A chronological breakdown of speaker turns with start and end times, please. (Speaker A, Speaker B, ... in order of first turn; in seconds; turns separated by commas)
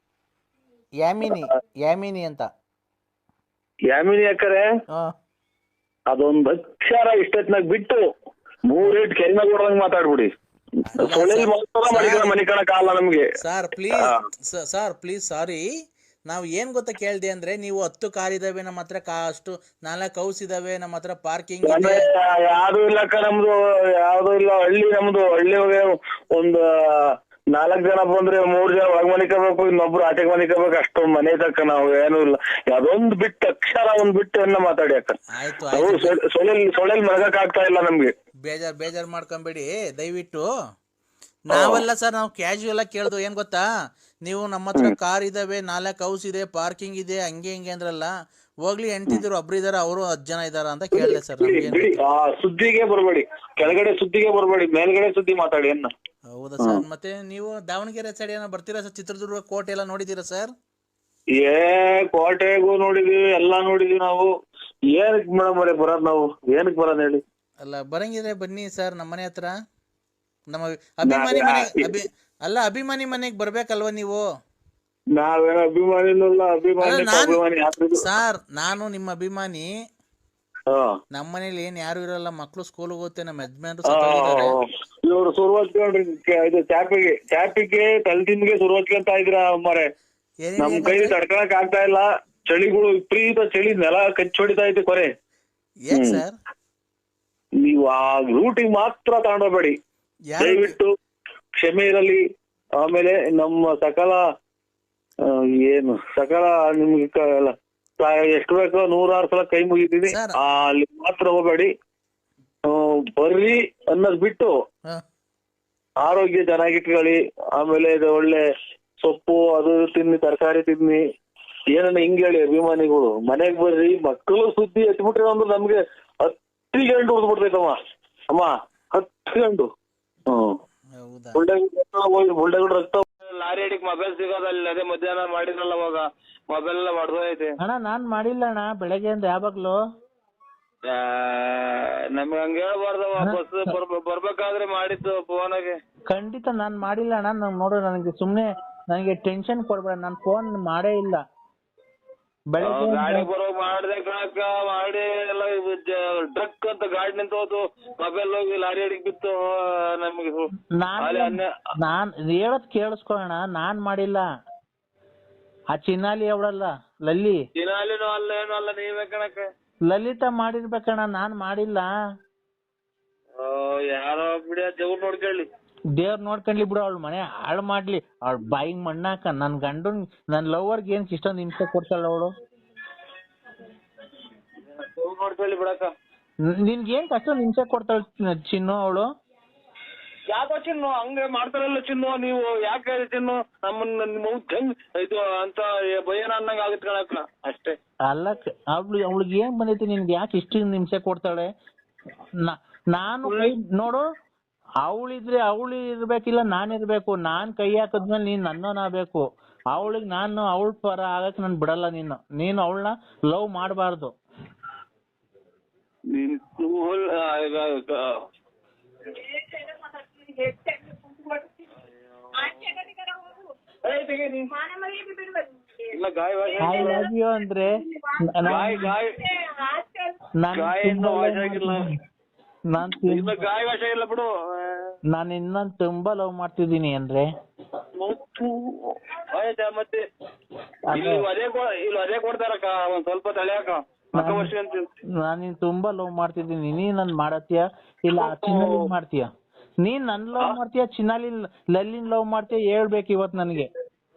Speaker A: 1.0-2.5, Speaker B: 6.1-8.0, Speaker B: 8.9-10.3, Speaker A: 10.9-12.4, Speaker B: 11.1-13.3, Speaker A: 13.4-15.7, Speaker A: 16.3-22.0, Speaker B: 21.7-26.6, Speaker B: 27.6-35.1, Speaker A: 35.3-36.2, Speaker B: 35.8-38.1, Speaker A: 38.4-40.5, Speaker A: 41.5-43.6, Speaker B: 41.5-41.8, Speaker A: 44.3-48.1, Speaker A: 48.7-52.0, Speaker B: 51.0-53.2, Speaker B: 54.0-55.9, Speaker A: 56.3-60.5, Speaker B: 62.1-64.3, Speaker B: 64.9-67.2, Speaker A: 67.6-69.5, Speaker A: 70.5-74.2, Speaker B: 71.1-71.9, Speaker B: 75.2-77.9, Speaker A: 76.8-77.4, Speaker A: 78.0-79.7, Speaker A: 81.1-84.6, Speaker B: 83.9-84.5, Speaker B: 85.1-89.9, Speaker A: 90.5-91.2, Speaker B: 90.6-95.1, Speaker A: 95.9-96.3, Speaker B: 95.9-96.2, Speaker B: 97.6-99.8, Speaker A: 100.3-100.8, Speaker B: 100.4-100.8, Speaker B: 101.6-102.2, Speaker B: 102.8-104.2, Speaker B: 105.3-111.7, Speaker A: 110.1-110.4, Speaker B: 112.7-114.5, Speaker B: 116.0-118.4, Speaker B: 119.0-121.0, Speaker B: 121.7-127.8, Speaker B: 128.3-129.7, Speaker A: 131.0-131.4, Speaker B: 131.4-133.0, Speaker C: 133.2-137.5, Speaker A: 137.6-139.8, Speaker C: 140.9-145.8, Speaker A: 146.1-151.2, Speaker A: 152.5-153.3, Speaker C: 152.6-160.4, Speaker A: 160.8-164.2, Speaker C: 161.0-161.5, Speaker A: 165.7-167.4, Speaker C: 167.6-169.5, Speaker A: 169.9-171.9, Speaker C: 173.4-175.5, Speaker A: 176.0-182.3, Speaker C: 184.7-185.9, Speaker A: 186.6-189.1, Speaker C: 190.3-197.8, Speaker A: 198.1-201.5, Speaker A: 202.5-204.1, Speaker C: 203.2-203.6, Speaker A: 204.8-214.2, Speaker C: 216.1-218.2, Speaker C: 221.7-222.9, Speaker C: 223.8-224.5, Speaker C: 225.9-227.1, Speaker A: 226.6-227.7, Speaker A: 228.3-228.9, Speaker C: 228.5-229.2, Speaker A: 230.4-231.8, Speaker C: 230.6-231.8, Speaker A: 232.7-233.4, Speaker C: 233.1-234.9, Speaker A: 235.1-237.3, Speaker C: 238.0-240.0, Speaker A: 240.9-241.2, Speaker C: 240.9-244.9, Speaker A: 244.2-244.5, Speaker A: 245.2-249.3, Speaker C: 248.2-248.9, Speaker A: 249.8-253.7